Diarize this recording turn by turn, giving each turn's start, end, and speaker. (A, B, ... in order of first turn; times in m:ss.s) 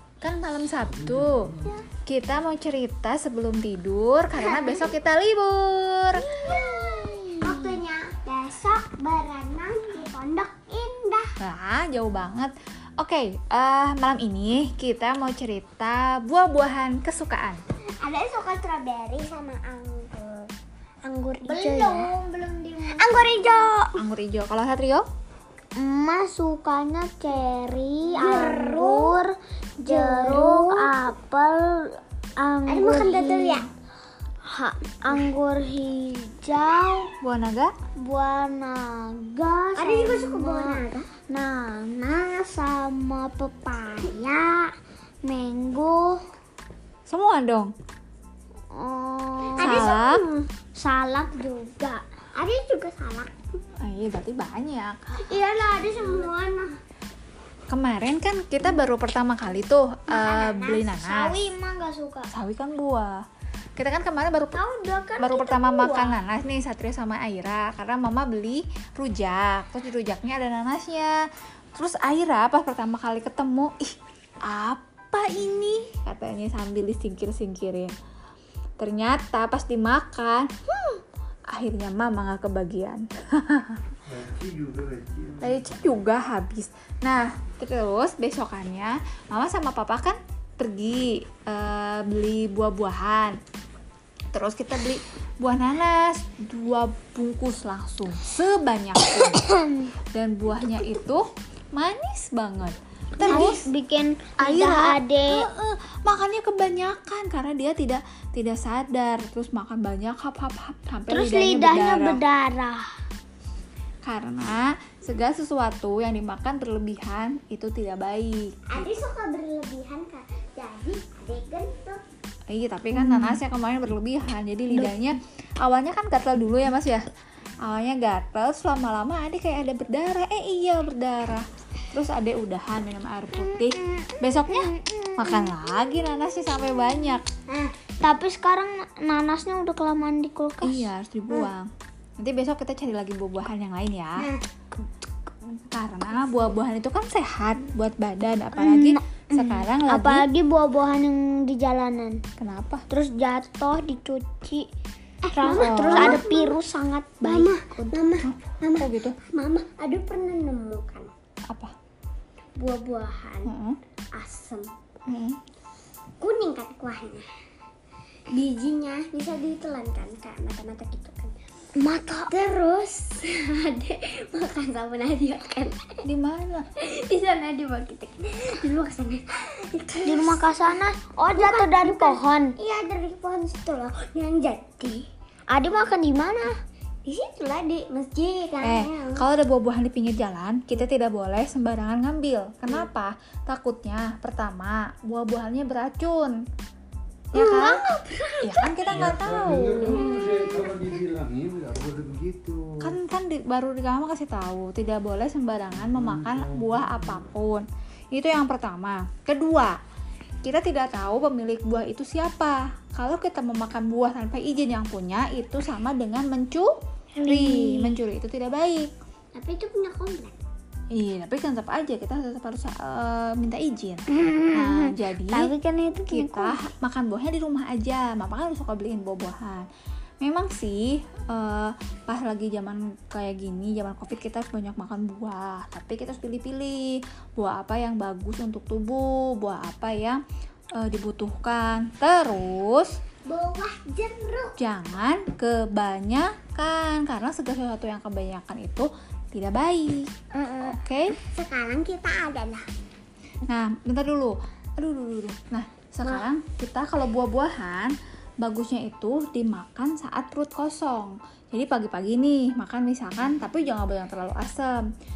0:00.2-0:06.2 A
0:04.4-0:04.9 B
0:06.2-0:07.8 C
0:06.4-0:11.4 B
0:11.4-0:17.6 A
0:18.0-0:20.5 B
0:21.0-0:22.1 B
0:21.4-0:23.2 C
0:23.0-0:24.0 B
0:24.0-0:25.0 A
0:25.8-0:29.3 C
0:28.2-0:29.2 B
0:29.8-0:33.6 C
0:29.8-0:30.9 B
0:32.7-0:33.7 B
0:34.4-0:37.1 C
0:37.2-0:37.7 A
0:38.0-0:44.3 C
0:39.8-0:41.1 B
0:44.3-0:44.6 B
0:45.2-0:46.2 C
0:47.1-0:47.7 A
0:48.7-0:49.9 C
0:49.5-0:50.5 B
0:49.6-0:50.2 A
0:50.8-0:52.0 C
0:52.4-0:53.3 B
0:53.8-0:55.1 A
0:55.2-0:56.7 B
0:57.7-1:01.4 A
1:00.1-1:02.3 C
1:02.3-1:03.2 A
1:03.8-1:04.6 A
1:04.5-1:06.2 C
1:05.2-1:11.2 A
1:11.7-1:17.9 A
1:18.8-1:20.5 A
1:21.5-1:23.9 A
1:24.4-1:25.4 D
1:25.4-1:33.4 A
1:34.3-1:39.5 A
1:39.4-1:39.8 C
1:40.1-1:43.7 A
1:43.2-1:45.5 C
1:43.2-1:43.6 B
1:44.4-1:52.2 A
1:51.1-1:52.9 C
1:54.0-1:58.9 A
1:58.7-2:02.0 B
2:02.5-2:07.1 A
2:03.0-2:03.3 C
2:07.6-2:17.2 A
2:14.5-2:15.4 C
2:18.0-2:21.5 C
2:20.6-2:24.3 A
2:25.5-2:30.3 A
2:28.6-2:32.2 C
2:32.4-2:32.8 A
2:32.9-2:34.7 C
2:35.2-2:36.6 B
2:35.3-2:37.3 C
2:35.6-2:36.2 A
2:37.2-2:39.2 A
2:37.2-2:41.1 B
2:41.5-2:41.7 A
2:42.6-2:43.5 B
2:43.4-2:43.8 A
2:44.1-2:44.7 B
2:45.0-2:45.4 A
2:46.2-2:47.3 B
2:48.3-2:51.4 B
2:51.7-2:52.3 C
2:52.3-2:55.8 B
2:56.0-2:56.6 A
2:56.8-3:00.4 B
3:00.0-3:02.5 C
3:01.1-3:05.1 B
3:05.5-3:06.6 C
3:07.0-3:09.2 B
3:08.6-3:16.4 A
3:17.3-3:17.8 A
3:17.3-3:19.0 B
3:18.4-3:20.2 A
3:19.2-3:19.8 D
3:19.8-3:21.0 B
3:19.9-3:20.5 C
3:20.5-3:22.7 D
3:22.8-3:29.8 A
3:30.4-3:38.9 A
3:37.2-3:37.9 C
3:39.3-3:40.4 B
3:40.9-3:45.5 A
3:45.3-3:46.6 C
3:46.1-3:49.6 A
3:50.2-4:00.2 A
4:00.8-4:02.9 A
4:03.2-4:04.5 B
4:04.6-4:10.1 A
4:10.4-4:12.6 B
4:10.6-4:11.2 A
4:13.5-4:24.8 A